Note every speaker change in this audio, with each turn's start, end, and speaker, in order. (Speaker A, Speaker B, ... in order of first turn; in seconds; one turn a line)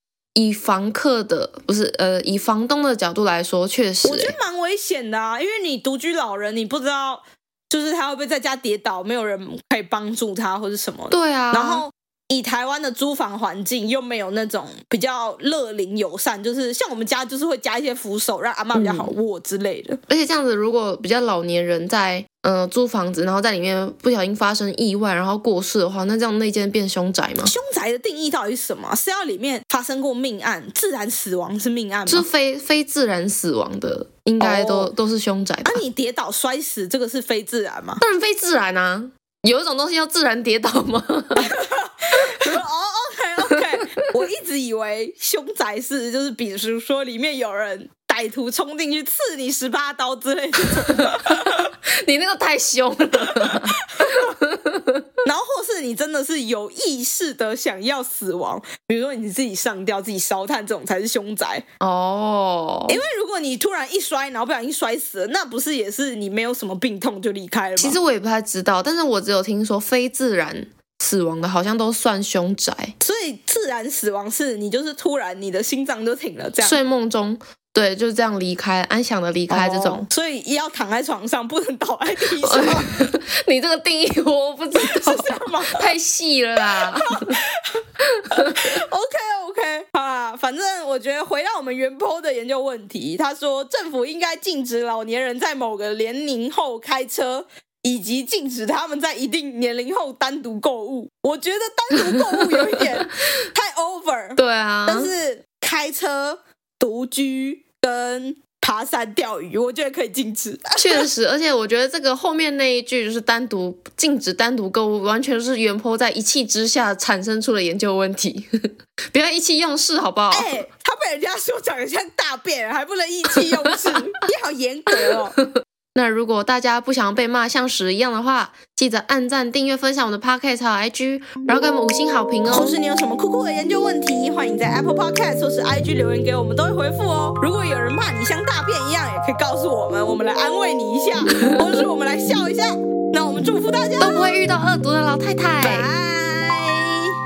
Speaker A: 0.4-4.4
Speaker B: 4.0-20.0
Speaker A: 11.1-11.8
Speaker A: 18.8-19.1
Speaker A: 20.1-27.6
Speaker B: 27.4-32.3
Speaker A: 32.1-35.8
Speaker B: 34.4-34.9
Speaker B: 35.6-38.0
Speaker A: 38.0-41.6
Speaker B: 41.4-51.5
Speaker A: 50.9-55.1
Speaker B: 53.4-54.3
Speaker B: 55.2-61.7
Speaker A: 61.8-63.0
Speaker B: 62.9-68.0
Speaker A: 67.8-73.0
Speaker B: 73.0-76.8
Speaker A: 76.6-80.1
Speaker B: 79.5-83.1
Speaker A: 82.4-87.4
Speaker B: 84.8-85.9
Speaker B: 86.7-111.1
Speaker A: 88.1-88.8
Speaker A: 102.4-102.8
Speaker A: 104.4-105.1
Speaker A: 110.8-120.5
Speaker B: 120.3-125.4
Speaker A: 125.4-132.8
Speaker B: 132.5-144.4
Speaker A: 141.4-141.8
Speaker A: 144.0-145.9
Speaker B: 145.6-147.1